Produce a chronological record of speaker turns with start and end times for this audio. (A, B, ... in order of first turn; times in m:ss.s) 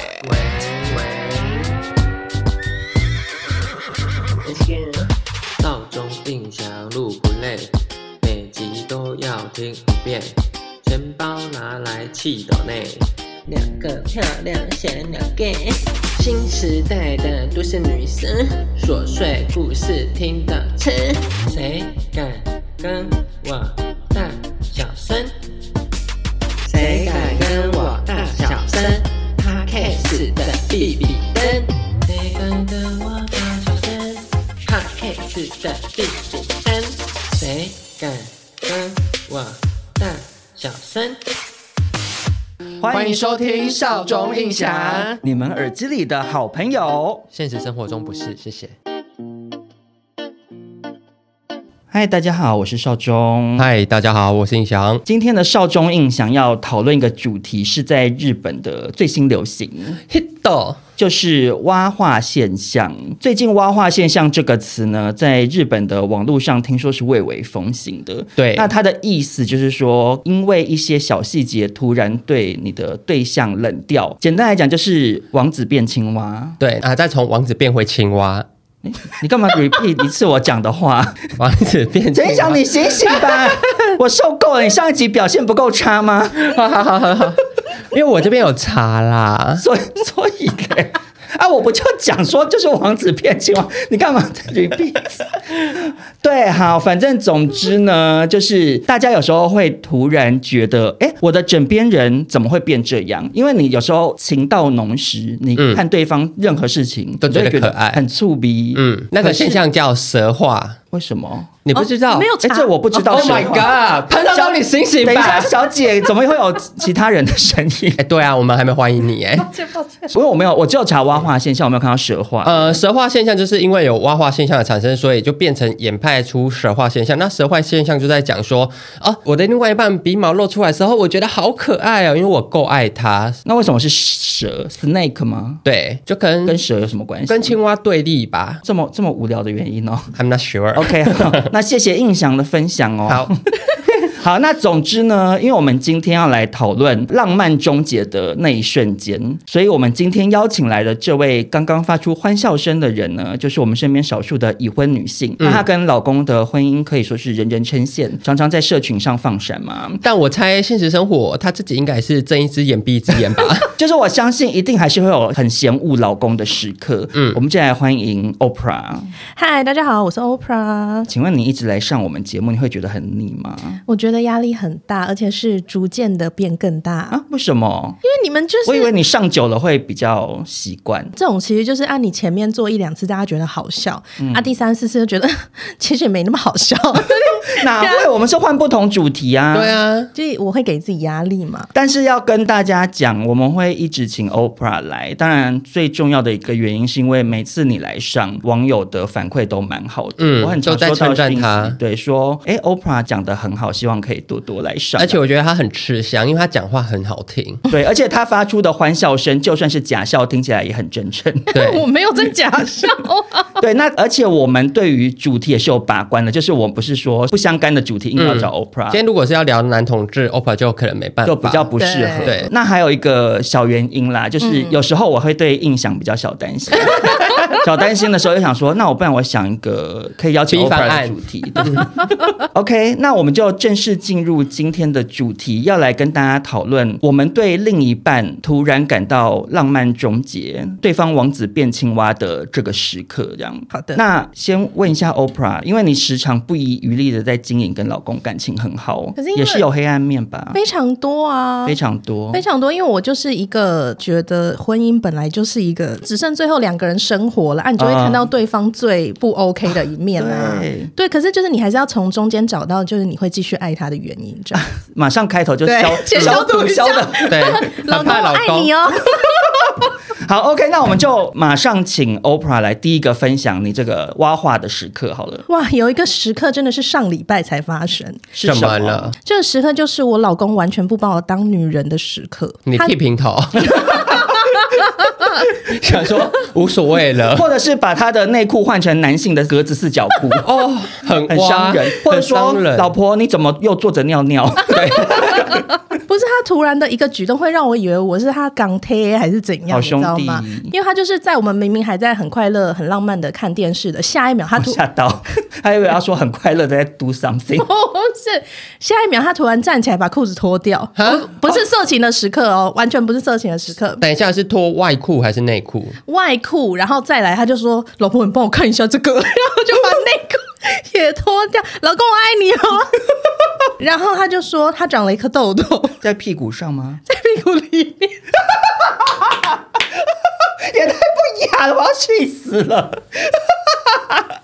0:00.2-0:01.4 A
0:04.5-0:04.8 A
0:04.5-0:05.0 B
0:05.6-0:07.6 B
0:05.6-0:07.4 A
0:08.2-0:10.3 B
0:08.2-0:10.0 A
0:10.8-0:12.9 B
0:10.9-0:12.7 A
0:13.5-0:25.2 B
0:16.2-0:16.6 A
0:17.3-0:21.8 A
0:22.9-0:23.5 A
0:24.1-0:25.2 A
0:26.7-0:33.8 A
0:26.7-0:34.0 B
0:34.7-0:36.8 A
0:34.7-0:36.7 B
0:37.3-0:38.0 A
0:37.5-0:39.5 B
0:40.0-0:40.8 A
0:40.0-0:41.1 B
0:42.8-0:43.5 C
0:42.9-0:45.2 A
0:44.4-0:47.3 C
0:47.3-0:48.7 A
0:51.9-0:53.7 C
0:53.6-0:55.0 A
0:55.0-1:00.0 C
1:00.1-1:00.8 A
1:01.0-1:16.6 C
1:08.4-1:08.7 A
1:16.6-1:18.5 A
1:18.8-1:21.3 C
1:21.4-1:23.5 A
1:22.1-1:26.5 C
1:26.3-1:27.4 A
1:27.9-1:29.6 A
1:29.6-1:49.6 C
1:45.6-1:45.8 A
1:47.2-1:48.0 A
1:48.7-1:50.8 A
1:50.9-1:51.6 C
1:51.6-1:52.3 A
1:51.7-1:53.6 D
1:52.4-1:58.0 C
1:53.1-1:55.7 A
1:58.0-1:59.5 A
1:59.6-2:00.1 D
2:00.1-2:02.8 C
2:02.4-2:13.4 A
2:13.4-2:15.6 C
2:15.6-2:16.6 A
2:16.4-2:17.5 C
2:17.3-2:18.6 A
2:18.6-2:20.1 C
2:20.1-2:21.4 A
2:20.7-2:40.0 C
2:40.0-2:43.7 A
2:43.8-2:49.1 C
2:49.4-2:51.1 D
2:51.1-2:53.8 C
2:53.9-2:57.2 D
2:57.1-2:58.0 C
2:58.0-2:58.9 D
2:58.6-3:01.1 C
3:01.2-3:08.1 D
3:04.2-3:04.5 C
3:07.2-3:09.8 C
3:09.5-3:10.1 A
3:10.1-3:11.7 D
3:11.7-3:25.2 C
3:20.2-3:21.8 A
3:25.0-3:27.6 A
3:27.7-3:31.5 C
3:31.5-3:33.5 D
3:31.5-3:31.8 A
3:33.6-3:39.0 C
3:38.2-3:42.5 A
3:41.2-4:10.6 C
3:41.8-3:42.3 D
3:44.4-3:44.7 D
3:47.0-3:47.4 D
3:50.5-3:51.8 A
4:03.7-4:04.0 D
4:09.2-4:09.6 D
4:10.5-4:11.8 D
4:11.6-4:12.4 C
4:12.3-4:24.6 D
4:17.8-4:18.2 C
4:20.2-4:20.9 C
4:24.5-4:27.6 C
4:25.6-4:29.9 D
4:27.3-4:28.7 A
4:29.6-4:35.4 C
4:35.5-4:38.2 D
4:38.3-4:39.1 C
4:38.4-4:39.2 A
4:39.2-4:42.9 D
4:42.7-4:44.0 A
4:43.7-4:44.1 C
4:43.7-4:44.8 D
4:45.6-4:47.5 A
4:47.3-4:50.4 C
4:50.4-4:52.9 A
4:51.3-4:55.6 C
4:54.7-4:55.3 A
4:55.1-5:04.8 D
4:59.7-5:00.7 C
5:04.6-5:07.7 C
5:07.6-5:14.0 D
5:11.0-5:11.3 A
5:14.0-5:16.0 A
5:16.1-5:23.1 D
5:23.8-5:26.0 D
5:26.0-5:27.0 C
5:27.1-5:28.2 D
5:28.9-5:29.5 C
5:30.6-5:34.3 C